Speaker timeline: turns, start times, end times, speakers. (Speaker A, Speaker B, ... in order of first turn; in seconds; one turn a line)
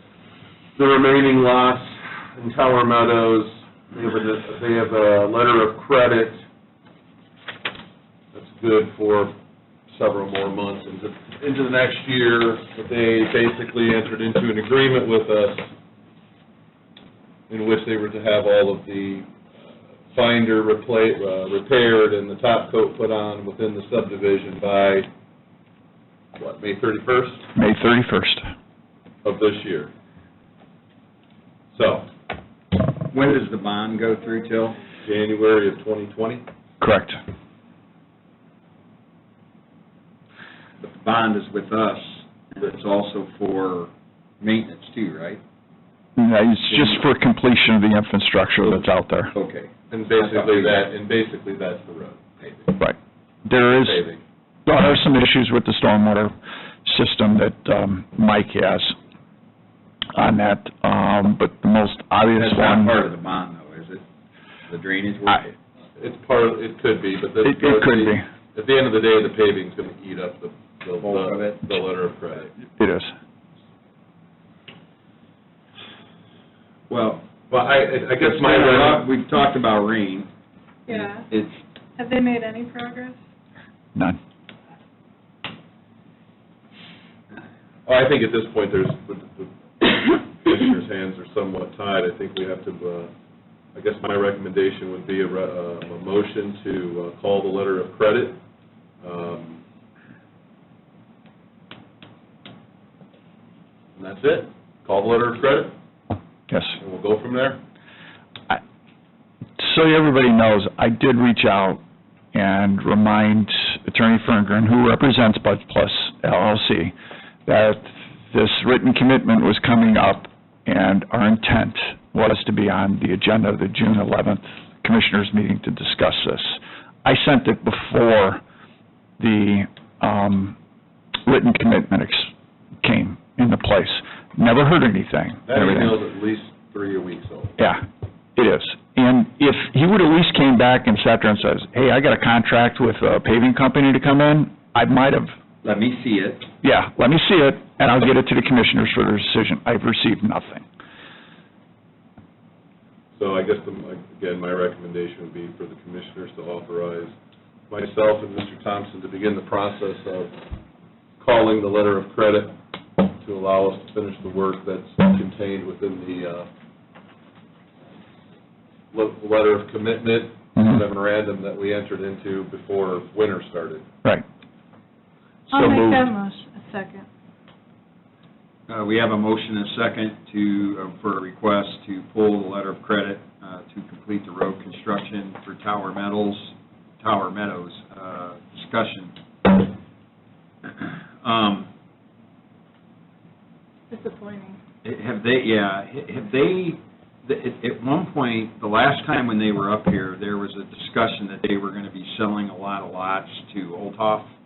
Speaker A: 0.8-6.4
Speaker A: 8.3-9.3
Speaker A: 9.9-15.7
Speaker A: 17.5-19.3
Speaker A: 20.1-25.1
Speaker A: 26.4-27.5
Speaker B: 27.6-28.5
Speaker A: 29.2-29.9
Speaker A: 31.7-32.1
Speaker C: 33.1-34.8
Speaker A: 35.0-36.4
Speaker B: 36.8-37.2
Speaker C: 40.8-45.4
Speaker B: 46.2-49.3
Speaker C: 46.7-47.0
Speaker C: 49.3-50.8
Speaker A: 49.9-52.8
Speaker B: 52.8-54.0
Speaker A: 53.8-54.2
Speaker B: 54.7-56.3
Speaker B: 56.9-59.0
Speaker B: 60.1-63.0
Speaker C: 62.3-64.0
Speaker C: 64.7-65.5
Speaker A: 66.0-72.5
Speaker B: 67.4-68.3
Speaker C: 71.0-71.7
Speaker B: 72.8-73.1
Speaker C: 76.9-77.2
Speaker A: 77.5-79.1
Speaker C: 78.2-80.3
Speaker D: 80.9-81.3
Speaker C: 80.9-81.6
Speaker D: 82.0-83.2
Speaker A: 87.9-93.1
Speaker A: 93.7-98.4
Speaker A: 99.0-99.6
Speaker A: 104.0-105.7
Speaker B: 106.5-106.8
Speaker A: 106.8-107.6
Speaker B: 109.6-111.8
Speaker B: 112.3-116.9
Speaker B: 117.5-128.4
Speaker B: 129.2-130.6
Speaker B: 131.3-132.3
Speaker B: 132.8-136.0
Speaker A: 135.5-137.6
Speaker B: 137.6-137.8
Speaker B: 138.4-145.3
Speaker C: 145.6-146.5
Speaker B: 146.6-150.7
Speaker A: 153.2-157.1
Speaker A: 157.7-160.3
Speaker A: 161.2-166.5
Speaker A: 168.9-173.8
Speaker B: 175.5-176.1
Speaker D: 175.5-177.1
Speaker C: 178.7-189.2
Speaker C: 190.6-191.7
Speaker D: 193.9-194.6
Speaker C: 194.8-204.3